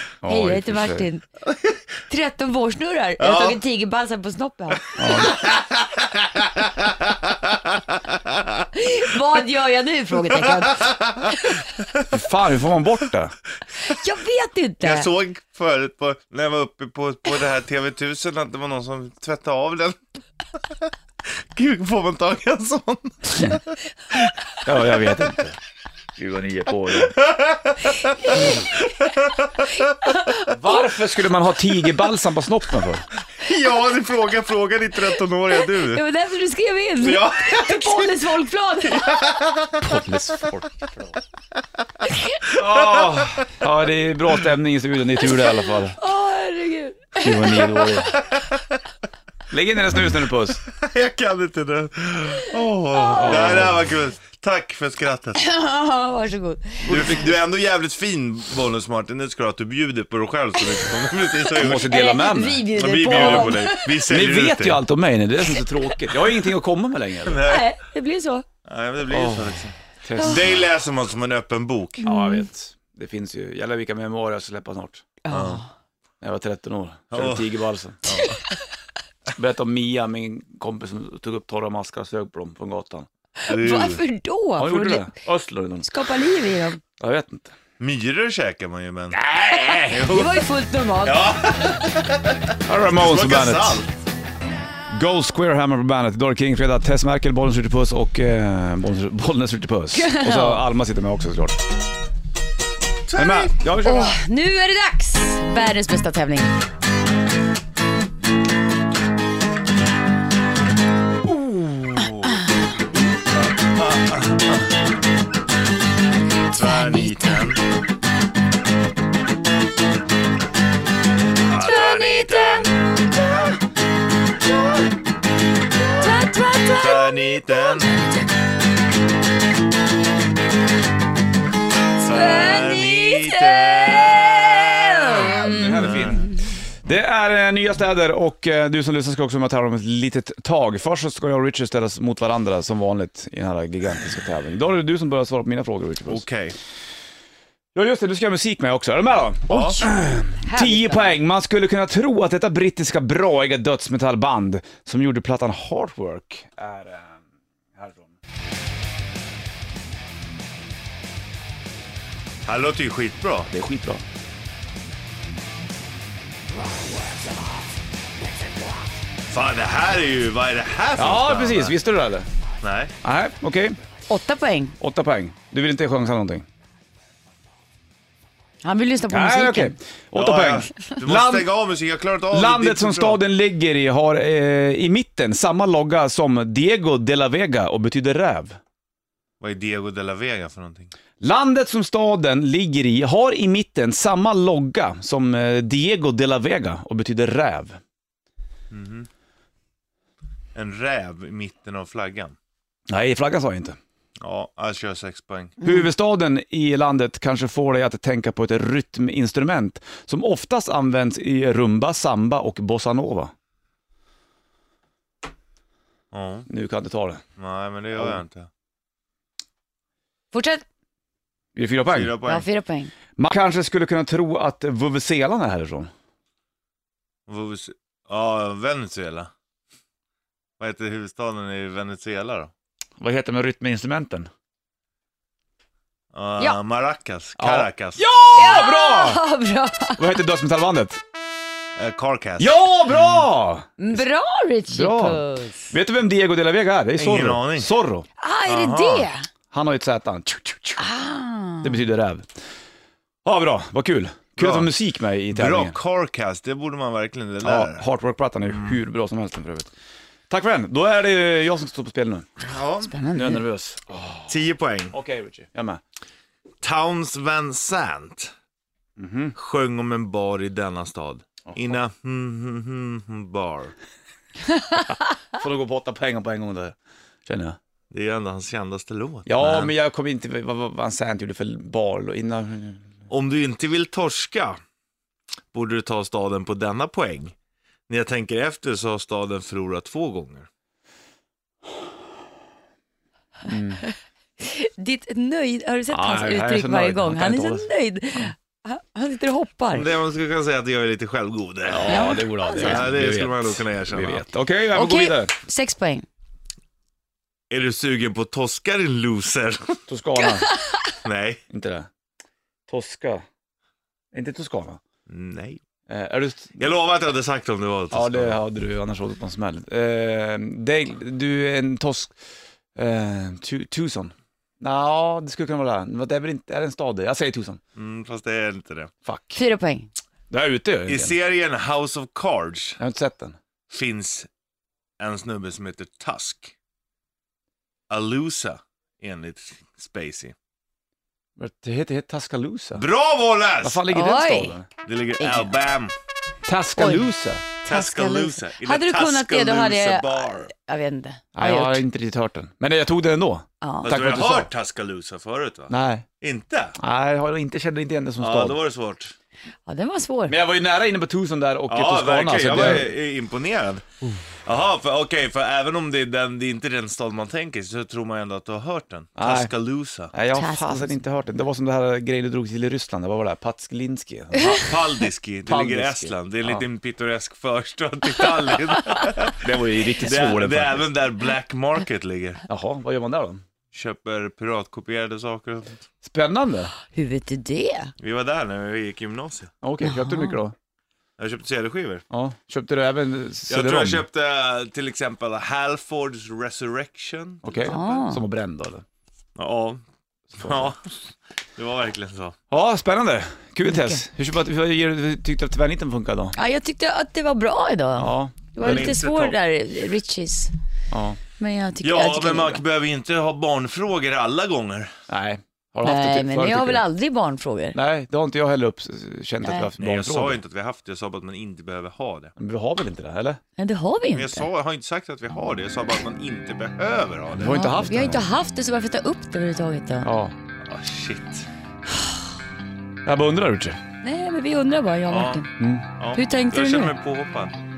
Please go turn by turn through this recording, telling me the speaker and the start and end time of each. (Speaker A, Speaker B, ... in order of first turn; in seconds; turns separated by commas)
Speaker A: 0.2-1.1, Speaker B: 0.3-1.2, Speaker C: 1.5-1.8, Speaker B: 2.1-5.0, Speaker C: 3.2-3.6, Speaker A: 5.0-5.4, Speaker C: 5.2-8.7, Speaker B: 8.7-11.6, Speaker C: 10.5-12.0, Speaker A: 12.1-13.3, Speaker B: 13.8-15.1, Speaker C: 14.8-20.0, Speaker C: 21.5-24.3, Speaker A: 24.6-25.5, Speaker A: 26.2-27.1, Speaker C: 26.9-30.1, Speaker B: 28.3-28.7, Speaker A: 30.5-33.0, Speaker C: 33.4-36.0, Speaker B: 35.6-39.1, Speaker C: 37.0-38.1, Speaker C: 38.9-40.0, Speaker A: 39.8-41.1, Speaker C: 42.5-43.6, Speaker A: 42.5-46.0, Speaker B: 45.3-47.9, Speaker A: 47.2-48.2, Speaker A: 49.5-50.6, Speaker C: 50.7-55.4, Speaker B: 53.0-53.3, Speaker A: 53.1-53.8, Speaker B: 55.4-57.1, Speaker A: 56.9-57.3, Speaker C: 56.9-62.0, Speaker A: 61.6-67.4, Speaker B: 61.8-64.1, Speaker C: 62.7-64.8, Speaker C: 67.2-67.7, Speaker B: 67.4-68.4, Speaker C: 68.7-72.0, Speaker A: 69.1-70.6, Speaker B: 72.0-72.5, Speaker A: 72.0-75.0, Speaker B: 75.2-75.7, Speaker C: 75.3-75.6, Speaker A: 76.2-78.0, Speaker C: 77.1-77.5, Speaker C: 78.0-78.4, Speaker A: 79.3-83.1, Speaker B: 83.4-85.1, Speaker C: 83.5-84.0, Speaker A: 84.6-85.9, Speaker B: 85.8-86.8, Speaker A: 87.0-87.5, Speaker C: 87.8-90.4, Speaker A: 89.2-89.9, Speaker B: 89.9-91.3, Speaker C: 91.0-93.9, Speaker A: 92.7-93.8, Speaker A: 94.9-101.6, Speaker B: 99.9-100.6, Speaker C: 103.1-103.5, Speaker A: 103.2-104.2, Speaker B: 103.8-106.5, Speaker C: 111.3-112.4, Speaker C: 113.4-114.7, Speaker C: 116.5-117.6, Speaker B: 116.5-117.5, Speaker C: 121.5-122.7, Speaker B: 121.6-123.5, Speaker B: 125.9-128.2, Speaker C: 126.8-127.9, Speaker C: 132.0-136.3, Speaker B: 132.1-136.3, Speaker A: 135.3-136.3, Speaker A: 136.8-146.2, Speaker C: 146.1-146.6, Speaker A: 147.7-157.2, Speaker C: 149.5-149.8, Speaker B: 150.4-151.1, Speaker A: 157.8-158.1, Speaker C: 162.4-163.5, Speaker A: 163.5-164.0, Speaker C: 169.3-171.7, Speaker A: 171.0-172.3, Speaker C: 172.6-172.9, Speaker A: 173.0-173.8, Speaker B: 174.1-174.8, Speaker A: 174.8-176.4, Speaker B: 178.6-179.7, Speaker A: 179.1-181.5, Speaker C: 180.2-183.2, Speaker A: 182.3-188.6, Speaker C: 189.4-190.9, Speaker A: 191.2-197.8, Speaker C: 198.7-199.1, Speaker C: 200.5-202.3, Speaker A: 202.9-203.8, Speaker C: 204.2-205.6, Speaker A: 205.6-213.3, Speaker C: 216.1-216.5, Speaker A: 216.5-217.2, Speaker C: 217.4-218.5, Speaker B: 220.3-220.6, Speaker A: 221.5-222.2, Speaker C: 221.9-222.4, Speaker B: 222.2-222.9, Speaker A: 223.2-225.9, Speaker C: 227.3-229.3, Speaker C: 230.6-232.5, Speaker A: 233.0-234.3, Speaker C: 236.1-238.0, Speaker A: 237.4-239.2, Speaker B: 238.3-240.0, Speaker A: 240.0-241.0, Speaker C: 241.8-243.0, Speaker A: 242.4-244.0, Speaker B: 243.8-245.6, Speaker A: 244.7-248.1, Speaker C: 247.0-247.7, Speaker B: 248.2-249.3, Speaker C: 248.4-249.1, Speaker A: 249.5-250.8, Speaker B: 250.8-251.8, Speaker A: 251.6-252.3, Speaker A: 253.2-255.8, Speaker C: 254.4-254.7, Speaker C: 255.3-257.9, Speaker A: 257.4-259.7, Speaker C: 258.5-258.8, Speaker A: 260.3-262.2, Speaker C: 262.4-262.9, Speaker B: 262.8-263.4, Speaker A: 263.1-264.3, Speaker C: 264.3-264.9, Speaker A: 264.9-265.8, Speaker C: 266.6-268.3, Speaker A: 269.0-269.4, Speaker C: 269.4-273.8, Speaker A: 275.3-276.8, Speaker A: 277.2-277.6, Speaker C: 277.9-279.7, Speaker A: 279.2-282.8, Speaker C: 283.1-284.6, Speaker C: 285.5-287.4, Speaker C: 287.9-290.5, Speaker A: 293.5-293.8, Speaker B: 294.4-299.9, Speaker A: 295.9-297.7, Speaker C: 299.7-304.2, Speaker A: 301.6-305.3, Speaker B: 301.9-302.9, Speaker B: 304.8-306.0, Speaker C: 307.5-309.8, Speaker A: 309.9-310.5, Speaker B: 310.5-310.8, Speaker C: 311.0-311.4, Speaker A: 311.5-311.9, Speaker A: 312.7-313.2, Speaker A: 314.1-314.8, Speaker C: 315.1-315.6, Speaker A: 315.9-316.6, Speaker C: 316.6-318.4, Speaker A: 317.9-322.1, Speaker A: 322.8-327.6, Speaker C: 327.8-328.9, Speaker A: 329.0-329.4, Speaker B: 329.3-329.9, Speaker A: 330.3-331.1, Speaker C: 330.9-332.8, Speaker A: 332.8-333.4, Speaker C: 333.7-334.3, Speaker C: 335.0-336.5, Speaker C: 337.9-340.4, Speaker A: 341.4-342.9, Speaker C: 342.8-343.8, Speaker A: 343.6-344.6, Speaker B: 343.9-344.5, Speaker C: 344.9-345.9, Speaker B: 345.2-345.5, Speaker A: 346.5-347.4, Speaker B: 346.8-347.0, Speaker C: 347.6-350.5, Speaker B: 347.6-351.8, Speaker A: 351.4-354.5, Speaker B: 353.6-354.0, Speaker C: 353.8-356.8, Speaker A: 355.7-356.0, Speaker A: 356.8-358.6, Speaker C: 358.2-359.1, Speaker B: 359.6-360.4, Speaker A: 360.3-362.9, Speaker C: 361.7-363.8, Speaker C: 364.4-370.1, Speaker A: 369.2-369.5, Speaker A: 370.1-374.6, Speaker B: 370.3-371.0, Speaker C: 374.4-379.4, Speaker A: 375.5-376.6, Speaker A: 379.4-380.9, Speaker C: 380.0-382.4, Speaker A: 382.5-383.4, Speaker C: 383.7-385.8, Speaker A: 386.0-386.7, Speaker B: 386.9-387.9, Speaker C: 388.0-389.5, Speaker A: 389.6-390.5, Speaker B: 389.8-390.4, Speaker C: 391.2-392.0, Speaker A: 392.1-394.0, Speaker C: 393.5-397.8, Speaker A: 397.4-398.8, Speaker B: 397.7-398.2, Speaker C: 399.4-399.8, Speaker A: 400.4-400.7, Speaker C: 400.4-401.0, Speaker C: 401.6-402.4, Speaker A: 402.5-406.3, Speaker B: 403.6-404.0, Speaker B: 406.4-410.5, Speaker A: 408.0-408.9, Speaker C: 408.6-409.4, Speaker A: 410.9-411.2, Speaker B: 411.4-412.6, Speaker C: 411.8-414.9, Speaker A: 415.1-416.8, Speaker B: 415.8-417.8, Speaker A: 417.7-420.4, Speaker B: 419.4-419.7, Speaker C: 419.8-422.3, Speaker A: 422.4-423.4, Speaker B: 423.6-424.5, Speaker C: 424.1-427.6, Speaker A: 427.3-428.2, Speaker B: 427.4-430.1, Speaker A: 430.0-430.3, Speaker C: 430.6-431.4, Speaker A: 433.1-433.8, Speaker B: 434.0-435.5, Speaker C: 435.1-435.4, Speaker A: 435.6-435.9, Speaker C: 436.0-437.6, Speaker B: 436.1-436.9